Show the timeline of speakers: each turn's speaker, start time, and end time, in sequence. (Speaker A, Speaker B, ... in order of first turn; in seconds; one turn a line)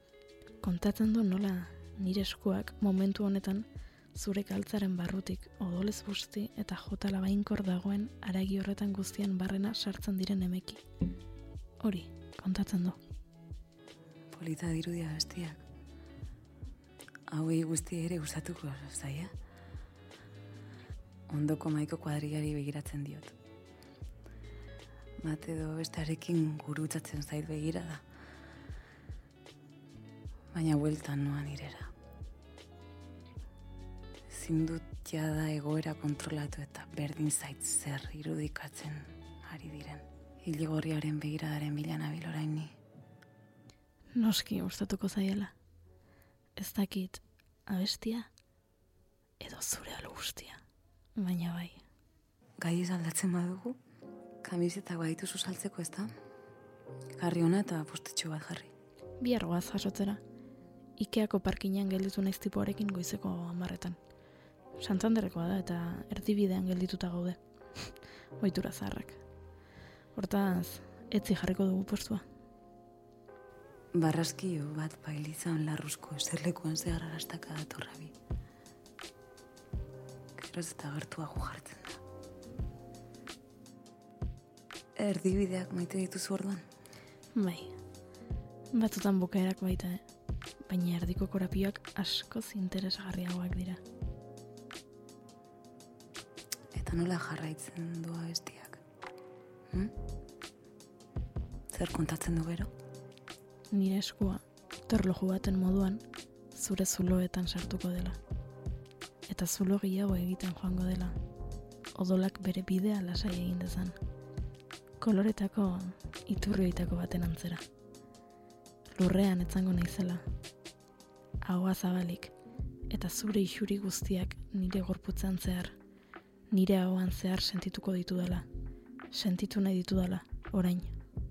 Speaker A: 0.6-10.8
Speaker A: 11.8-13.0
Speaker B: 14.3-15.6
Speaker B: 17.3-19.3
Speaker B: 21.3-23.3
Speaker B: 25.2-28.0
Speaker B: 30.5-31.9
Speaker B: 34.3-42.7
Speaker A: 44.1-45.5
Speaker A: 46.5-48.3
Speaker A: 49.4-50.6
Speaker A: 51.1-51.8
Speaker B: 52.6-53.8
Speaker B: 54.4-56.1
Speaker B: 57.2-58.7
Speaker A: 59.2-60.2
Speaker A: 61.0-64.0
Speaker A: 64.8-69.2
Speaker A: 70.1-72.2
Speaker B: 73.9-78.1
Speaker B: 80.4-82.0
Speaker B: 85.0-86.7
Speaker A: 87.3-87.8
Speaker A: 88.7-90.0
Speaker A: 90.6-93.8
Speaker B: 96.7-98.8
Speaker B: 101.7-102.7
Speaker A: 103.7-108.2
Speaker A: 109.3-111.2
Speaker A: 111.9-114.0
Speaker A: 115.0-117.6
Speaker A: 118.9-120.2
Speaker A: 121.4-122.3
Speaker A: 122.9-125.8
Speaker A: 126.5-128.5
Speaker A: 129.1-130.9